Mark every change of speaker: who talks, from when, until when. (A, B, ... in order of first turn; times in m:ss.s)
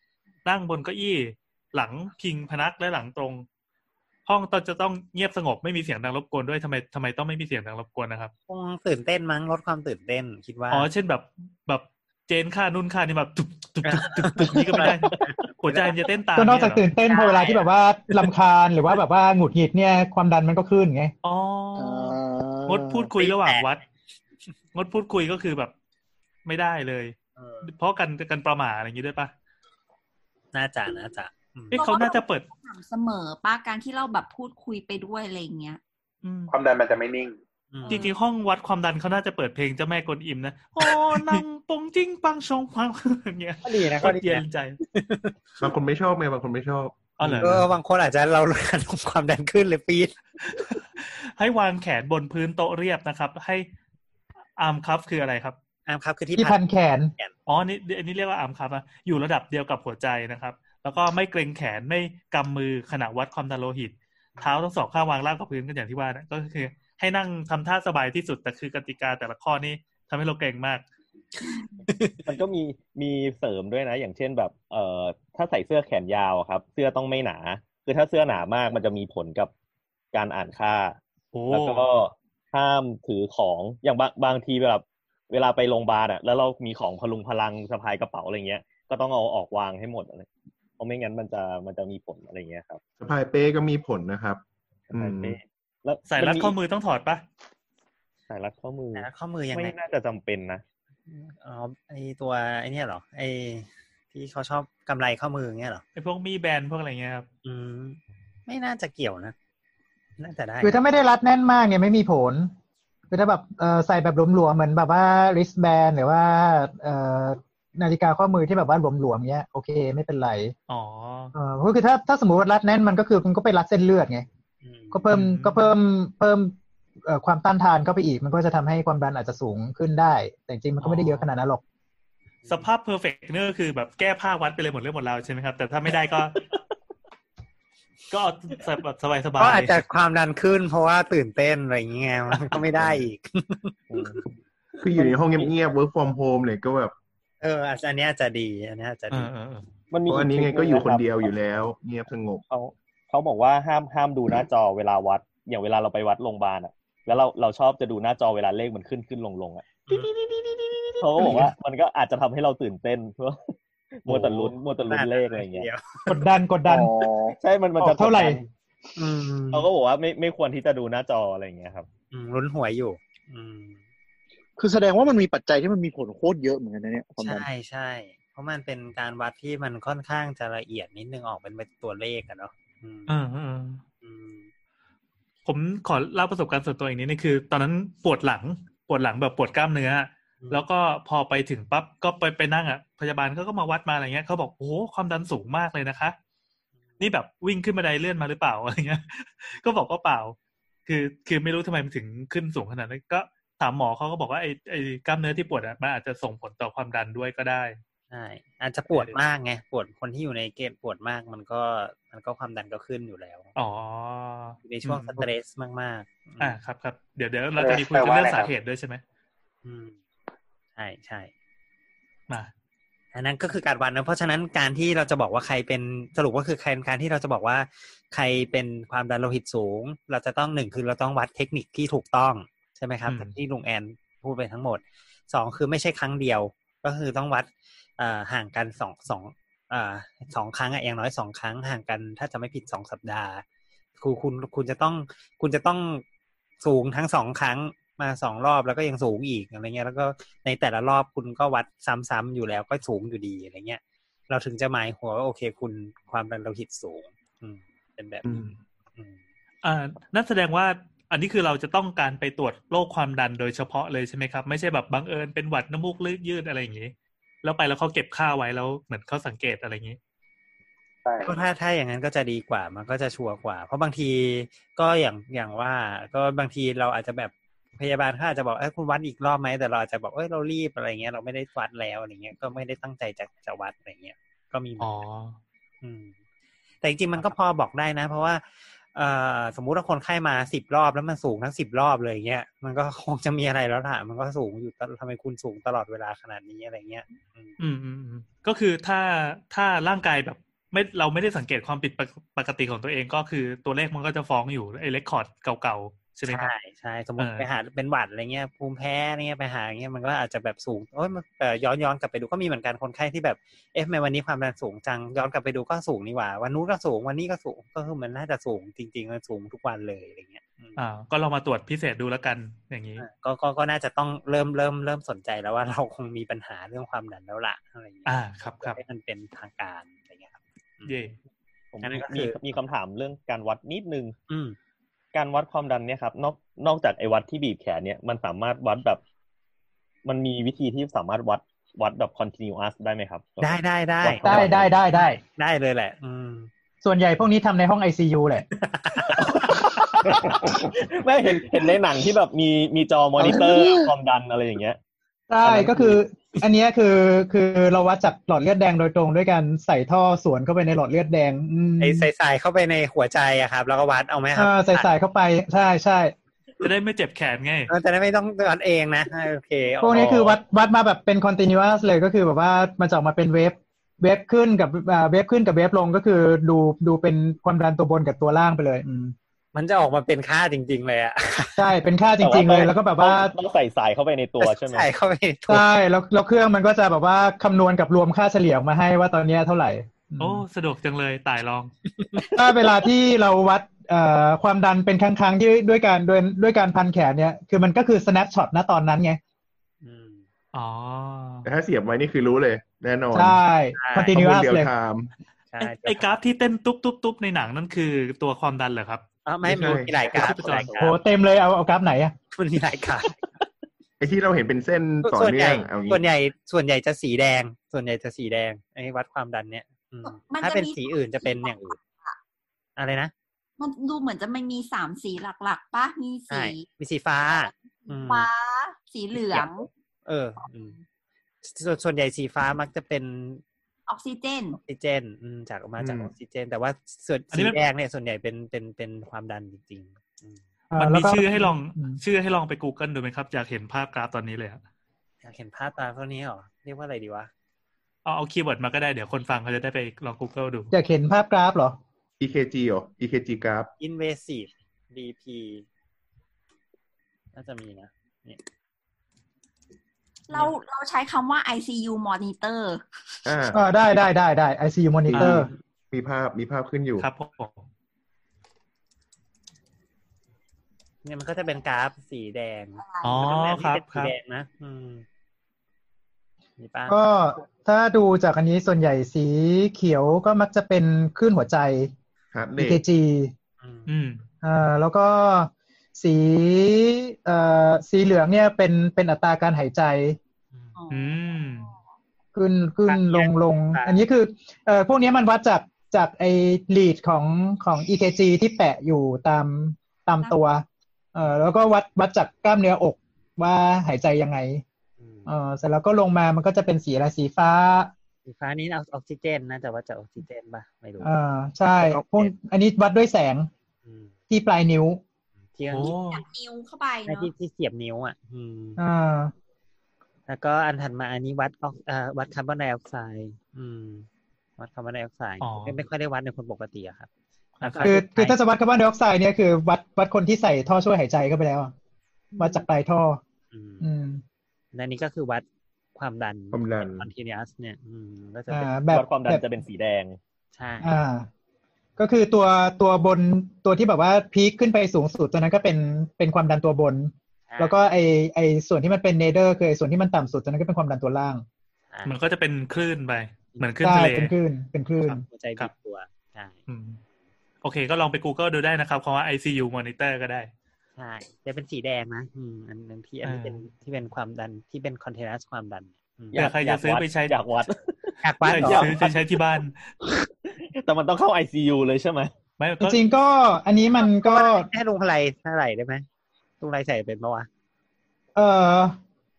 0:00.4-0:03.4 A
0:04.2-0:08.3 A
0:08.5-0:10.9 B
0:10.7-0:16.8 A
0:13.8-0:16.0 B
0:16.4-0:21.1 C
0:17.0-0:18.2 B
0:21.2-0:23.8 A
0:21.8-0:23.1 D
0:23.2-0:23.7 B
0:24.7-0:25.7 A
0:26.4-0:29.3 A
0:27.4-0:27.7 B
0:30.5-0:31.8 B
0:31.7-0:32.5 A
0:31.7-0:35.8 E
0:36.2-0:36.5 A
0:36.5-0:37.4 F
0:37.7-0:38.0 B
0:37.8-0:38.2 E
0:37.9-0:44.8 A
0:41.1-0:41.4 B
0:43.6-0:45.4 B
0:45.6-0:47.1 G
0:47.2-0:47.7 A
0:47.4-0:50.1 B
0:50.4-0:53.6 A
0:54.6-0:55.6 A
0:55.9-0:56.6 B
0:56.4-0:57.1 C
0:57.5-1:10.8 A
1:11.4-1:12.2 B
1:12.2-1:19.5 H
1:20.1-1:21.0 H
1:21.3-1:21.8 A
1:21.5-1:30.3 H
1:30.8-1:32.8 H
1:33.0-1:35.4 G
1:34.9-1:36.5 H
1:36.1-1:37.2 A
1:38.3-1:40.6 H
1:38.9-1:39.7 B
1:41.1-1:45.8 B
1:46.0-1:47.3 A
1:47.4-1:49.3 B
1:50.2-1:50.8 B
1:50.6-1:52.5 C
1:53.1-2:00.5 C
2:00.7-2:01.3 A
2:01.3-2:04.2 C
2:04.6-2:05.0 B
2:04.9-2:11.6 C
2:05.1-2:05.7 A
2:10.8-2:11.3 B
2:12.5-2:16.4 A
2:18.1-2:19.8 A
2:19.4-2:23.8 B
2:23.9-2:24.2 H
2:24.8-2:26.9 G
2:27.4-2:29.3 B
2:29.1-2:29.6 A
2:29.9-2:31.4 H
2:30.1-2:32.4 G
2:32.5-2:40.0 H
2:39.9-2:40.2 B
2:41.0-2:45.7 H
2:44.1-2:44.4 B
2:44.9-2:46.2 B
2:46.1-2:46.9 C
2:46.6-2:47.4 D
2:47.4-2:48.5 H
2:47.8-2:48.4 C
2:49.0-2:49.7 B
2:49.5-2:51.9 H
2:52.1-2:53.8 B
2:54.6-2:57.5 D
2:57.2-3:03.1 B
3:03.1-3:03.8 A
3:04.0-3:04.5 B
3:05.4-3:16.2 A
3:17.0-3:27.8 A
3:28.1-3:33.5 B
3:28.9-3:29.2 A
3:33.6-3:35.3 A
3:34.6-3:36.6 B
3:36.4-3:39.0 A
3:37.6-3:38.5 F
3:39.6-3:40.0 B
3:40.8-3:41.3 B
3:43.1-4:03.4 B
3:53.0-3:53.3 A
4:04.0-4:06.0 B
4:06.6-4:19.2 B
4:18.2-4:18.6 G
4:19.6-4:30.0 A
4:31.0-4:31.4 F
4:31.2-4:45.0 B
4:44.8-4:45.4 A
4:45.8-4:46.1 B
4:46.8-4:48.4 B
4:48.9-4:57.6 B
4:57.6-5:06.5 A
5:06.2-5:20.8 B
5:07.2-5:07.5 A
5:20.8-5:23.0 A
5:23.0-5:31.0 B
5:28.0-5:28.8 A
5:30.8-5:31.2 A
5:31.7-5:34.1 H
5:31.8-5:32.4 B
5:34.3-5:34.6 B
5:35.1-5:39.0 H
5:40.0-5:44.8 H
5:43.4-5:46.5 B
5:44.2-5:45.2 C
5:46.8-5:48.4 C
5:48.6-5:49.6 B
5:49.2-5:54.8 H
5:53.2-5:53.9 D
5:55.3-6:02.1 C
5:55.4-5:55.9 H
6:01.8-6:04.9 B
6:04.4-6:06.1 C
6:06.6-6:07.7 A
6:07.7-6:10.4 B
6:09.8-6:19.1 C
6:19.5-6:21.6 B
6:21.6-6:23.3 C
6:22.2-6:24.9 H
6:24.4-6:25.6 B
6:25.5-6:30.4 C
6:30.2-6:31.7 A
6:31.9-6:32.3 B
6:32.3-6:39.2 C
6:39.8-6:40.2 B
6:40.5-6:41.5 A
6:41.4-6:43.4 G
6:43.1-6:44.7 C
6:43.8-6:44.2 B
6:44.1-6:45.1 G
6:45.5-6:46.2 B
6:45.6-6:49.0 A
6:49.2-6:51.0 B
6:49.4-6:50.1 G
6:50.1-6:50.8 A
6:50.8-6:52.1 C
6:52.3-6:53.2 B
6:54.0-6:56.0 G
6:55.0-7:01.8 B
7:00.0-7:02.2 E
7:02.8-7:03.1 B
7:03.6-7:06.6 E
7:06.3-7:08.3 B
7:07.8-7:09.7 E
7:09.1-7:09.5 B
7:10.0-7:10.8 B
7:11.4-7:13.4 B
7:13.9-7:14.6 E
7:14.6-7:20.4 B
7:15.8-7:16.1 G
7:17.3-7:17.6 A
7:20.7-7:22.0 C
7:20.8-7:24.6 A
7:25.2-7:27.3 B
7:28.0-7:30.7 A
7:30.7-7:31.8 C
7:32.2-7:33.7 G
7:33.8-7:35.6 B
7:37.3-7:38.4 B
7:40.3-7:42.8 E
7:43.2-7:43.6 G
7:43.5-7:45.5 C
7:45.1-7:47.1 G
7:45.1-7:45.5 A
7:47.0-7:47.6 A
7:51.0-7:55.0 B
7:52.8-7:53.2 E
7:53.0-7:54.1 A
7:56.6-7:57.0 B
7:56.9-8:01.9 C
8:02.3-8:02.8 G
8:02.6-8:03.3 C
8:03.6-8:03.9 B
8:03.9-8:04.2 A
8:04.4-8:10.2 C
8:10.8-8:11.8 E
8:10.9-8:11.7 A
8:12.3-8:24.6 C
8:12.8-8:14.0 B
8:25.0-8:25.3 B
8:25.3-8:27.9 C
8:28.2-8:31.1 B
8:31.0-8:33.5 C
8:31.8-8:32.3 B
8:33.8-8:34.1 B
8:34.3-8:35.0 C
8:35.5-8:35.9 B
8:35.7-8:36.2 A
8:35.8-8:37.3 E
8:37.0-8:38.8 B
8:38.8-8:39.3 C
8:40.3-8:44.1 B
8:44.6-8:47.1 B
8:45.4-8:45.8 A
8:47.6-8:47.9 A
8:47.6-8:48.4 B
8:47.8-8:51.7 C
8:52.4-8:53.2 C
8:53.5-8:53.9 B
8:53.8-8:54.2 C
8:54.7-8:55.4 B
8:56.0-8:58.7 B
8:56.5-8:57.1 G
8:58.5-8:59.4 C
8:58.9-9:00.2 H
9:00.5-9:01.0 B
9:00.8-9:01.3 C
9:02.0-9:11.4 C
9:07.5-9:07.8 B
9:11.9-9:12.2 B
9:12.0-9:14.3 A
9:13.8-9:15.2 C
9:15.0-9:16.6 B
9:16.7-9:17.0 A
9:17.6-9:20.5 A
9:21.0-9:26.4 B
9:23.2-9:23.6 A
9:26.3-9:29.4 H
9:26.3-9:27.4 A
9:28.2-9:29.0 B
9:28.4-9:29.8 A
9:30.4-9:32.3 H
9:32.6-9:33.0 A
9:32.8-9:34.7 C
9:34.0-9:36.0 B
9:36.6-9:37.5 B
9:38.4-9:39.0 C